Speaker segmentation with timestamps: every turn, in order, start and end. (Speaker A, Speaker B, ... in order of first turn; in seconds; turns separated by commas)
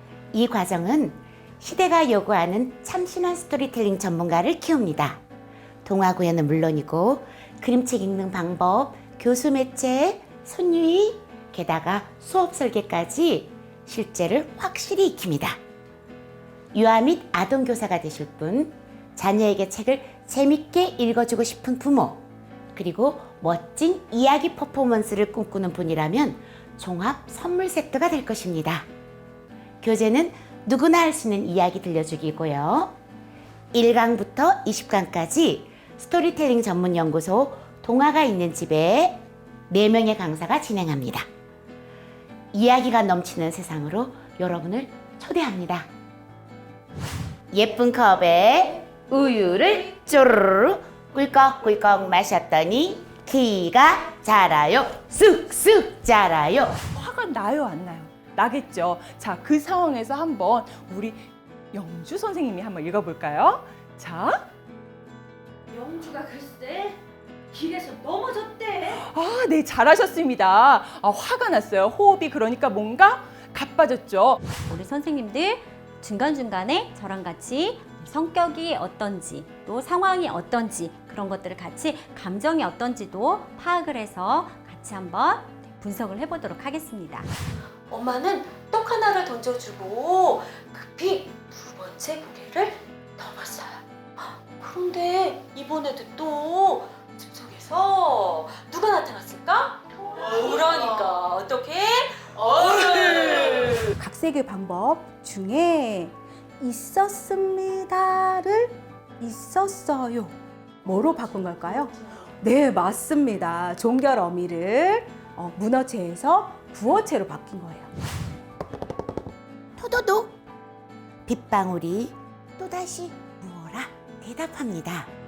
Speaker A: 0.3-5.2, Speaker A: 5.8-15.6, Speaker A: 16.7-22.2, Speaker A: 22.7-28.9, Speaker A: 29.8-33.0, Speaker A: 33.7-41.2, Speaker A: 42.5-45.9, Speaker A: 47.5-56.8, Speaker B: 56.9-64.5, Speaker C: 65.7-67.0, Speaker C: 67.5-69.0, Speaker B: 69.0-74.4, Speaker D: 74.6-87.3, Speaker C: 87.9-103.9, Speaker E: 104.0-117.9, Speaker A: 119.8-120.4, Speaker A: 121.2-125.1